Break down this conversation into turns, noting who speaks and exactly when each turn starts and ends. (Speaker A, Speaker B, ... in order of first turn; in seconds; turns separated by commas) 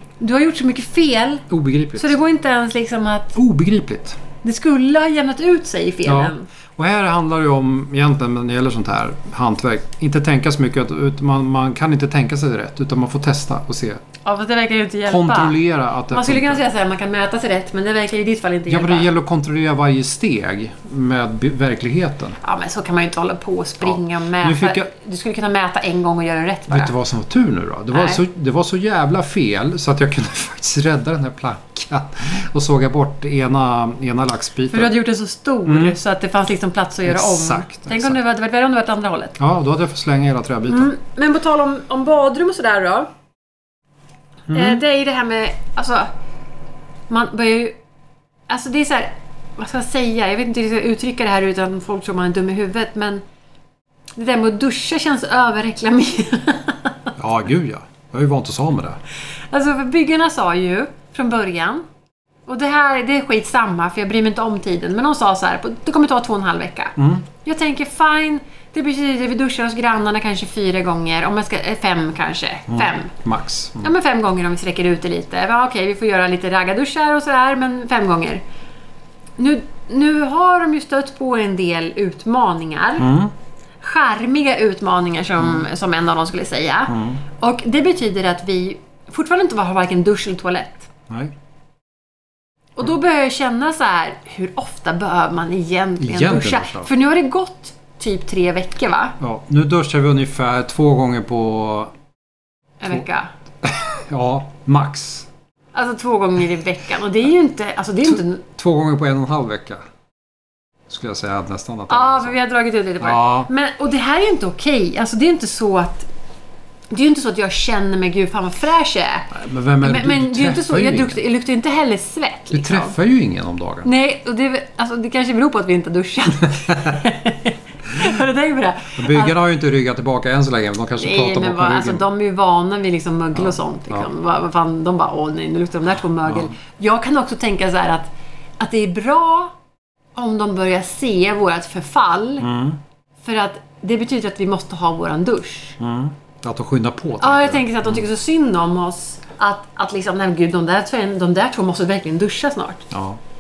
Speaker A: 0.2-3.4, Speaker B: 1.5-2.2, Speaker B: 3.4-4.2, Speaker A: 4.4-6.5, Speaker B: 6.0-14.0, Speaker A: 14.2-19.1, Speaker B: 15.1-16.6, Speaker B: 18.7-22.4, Speaker A: 22.4-26.9, Speaker B: 23.8-24.9, Speaker B: 26.7-34.9, Speaker A: 27.9-28.2, Speaker A: 34.7-39.4, Speaker B: 35.7-36.0, Speaker B: 37.0-38.2, Speaker B: 39.4-40.9, Speaker A: 40.7-43.1, Speaker B: 44.5-44.8, Speaker A: 44.5-46.1, Speaker A: 47.1-47.8, Speaker A: 48.5-53.2, Speaker A: 54.2-57.1, Speaker B: 57.2-59.0, Speaker A: 59.5-61.8, Speaker A: 62.5-73.1, Speaker B: 67.0-67.2, Speaker B: 72.7-73.9, Speaker A: 73.8-78.4, Speaker A: 79.4-83.1, Speaker B: 83.0-83.3, Speaker A: 83.8-90.9, Speaker B: 86.9-87.2, Speaker B: 91.1-91.3, Speaker A: 92.8-99.2, Speaker B: 96.0-96.9, Speaker B: 99.2-101.9, Speaker A: 102.8-103.3, Speaker B: 103.6-105.3, Speaker A: 105.7-108.4, Speaker B: 108.1-109.8, Speaker B: 110.9-112.3, Speaker A: 111.9-116.1, Speaker B: 113.0-113.5, Speaker A: 116.9-122.9, Speaker B: 119.3-121.2, Speaker B: 122.5-123.9, Speaker A: 123.8-129.3, Speaker B: 126.5-127.0, Speaker B: 129.0-132.1, Speaker A: 131.0-139.5, Speaker B: 133.4-134.1, Speaker B: 136.3-136.5, Speaker A: 140.2-142.5, Speaker B: 142.4-142.8, Speaker A: 143.2-145.8, Speaker B: 145.8-148.1, Speaker A: 147.2-152.9, Speaker B: 152.9-153.2